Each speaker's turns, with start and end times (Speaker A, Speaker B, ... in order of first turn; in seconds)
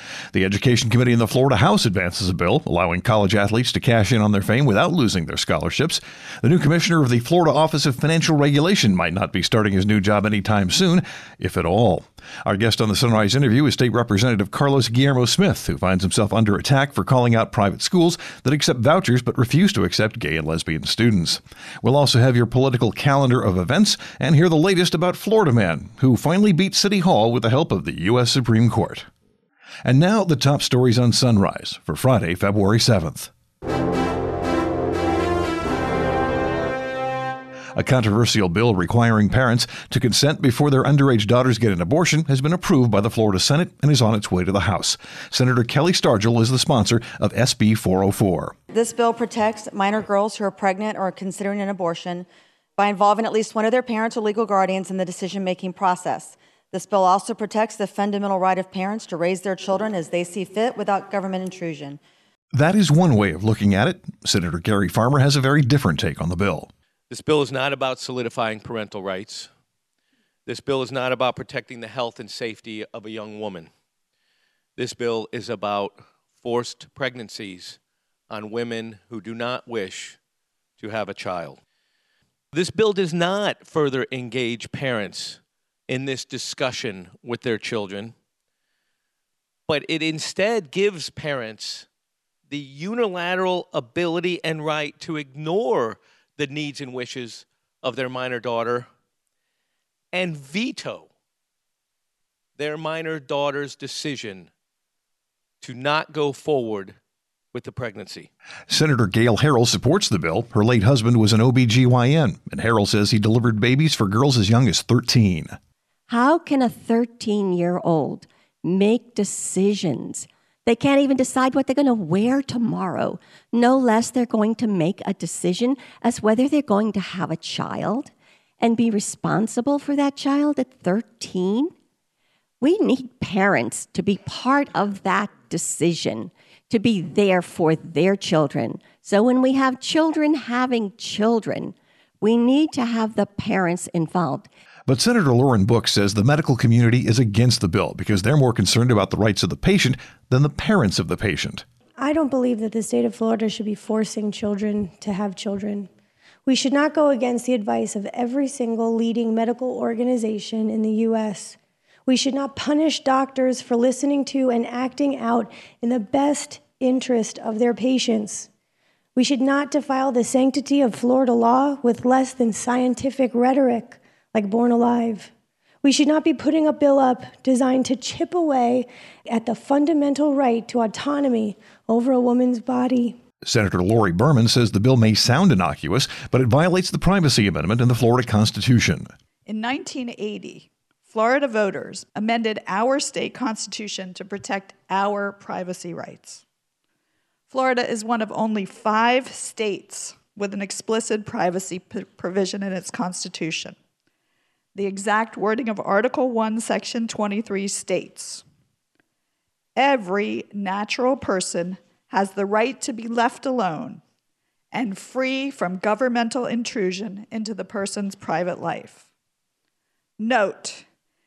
Speaker A: 0.3-29.1, 29.8-33.3, 37.8-48.6, 62.5-66.7, 108.7-115.6, 144.9-151.7, 183.4-189.1
Speaker B: 48.7-52.3, 52.8-62.0
Speaker C: 67.1-69.5, 70.5-73.7, 74.8-77.8, 78.3-80.2, 80.8-81.6, 82.5-88.2, 89.7-91.9, 92.5-98.9, 100.1-101.1, 102.6-104.5, 105.6-107.0, 107.5-108.3
Speaker D: 116.1-131.7, 132.6-144.5
Speaker E: 152.0-155.9, 156.4-168.5, 169.2-175.3, 175.8-183.2
Speaker F: 189.5-196.4, 197.5-203.8, 204.8-208.4, 209.8-214.0, 214.7-219.0, 220.2-220.9